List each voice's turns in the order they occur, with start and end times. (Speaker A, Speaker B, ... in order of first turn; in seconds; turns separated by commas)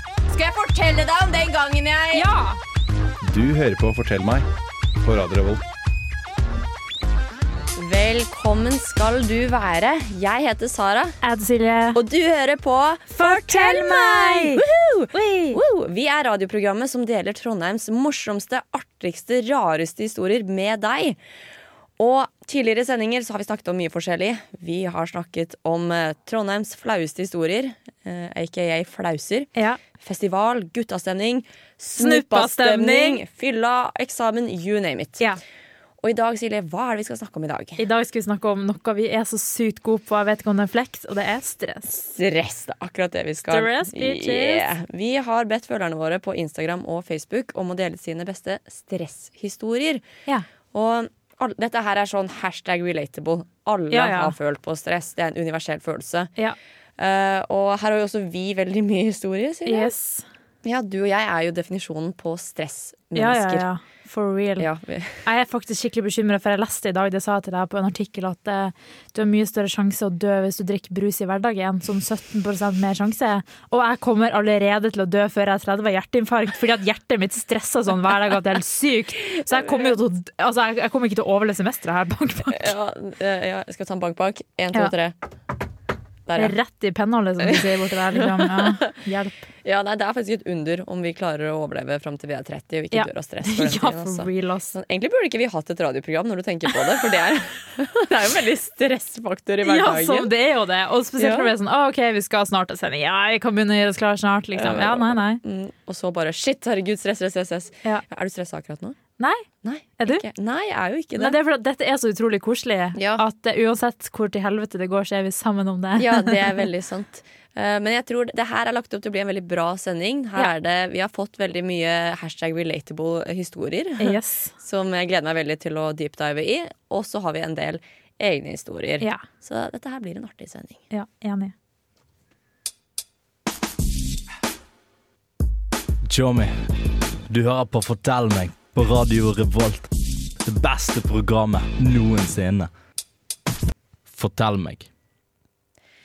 Speaker A: 0.3-2.3, Speaker B: 2.1-2.6, Speaker C: 3.2-4.5, Speaker C: 5.0-5.6, Speaker A: 7.8-11.2, Speaker B: 11.2-12.0, Speaker A: 11.9-21.2, Speaker B: 13.1-15.6, Speaker A: 22.0-35.2, Speaker B: 29.5-29.8, Speaker B: 31.9-33.2, Speaker A: 36.0-37.8, Speaker B: 37.8-41.9, Speaker A: 41.9-50.0, Speaker B: 43.5-44.7, Speaker A: 50.7-56.3, Speaker B: 53.9-54.3, Speaker A: 57.0-59.9, Speaker B: 59.6-60.3, Speaker A: 60.6-63.7, Speaker B: 63.1-64.7, Speaker A: 64.6-65.2, Speaker B: 65.2-82.7, Speaker A: 79.5-79.9, Speaker A: 82.5-85.1, Speaker A: 86.3-86.5, Speaker B: 86.3-89.4, Speaker A: 87.4-88.9, Speaker A: 89.6-100.3, Speaker B: 92.9-94.7, Speaker B: 99.6-105.4, Speaker A: 101.2-101.5, Speaker A: 104.5-109.0, Speaker B: 109.2-109.5, Speaker A: 109.6-111.4, Speaker B: 110.0-110.2, Speaker B: 111.2-116.7, Speaker A: 112.9-113.2, Speaker A: 116.0-130.8, Speaker B: 124.0-124.5, Speaker B: 130.9-131.5, Speaker D: 136.1-136.7, Speaker D: 137.3-139.9, Speaker D: 140.4-142.7, Speaker D: 144.1-144.9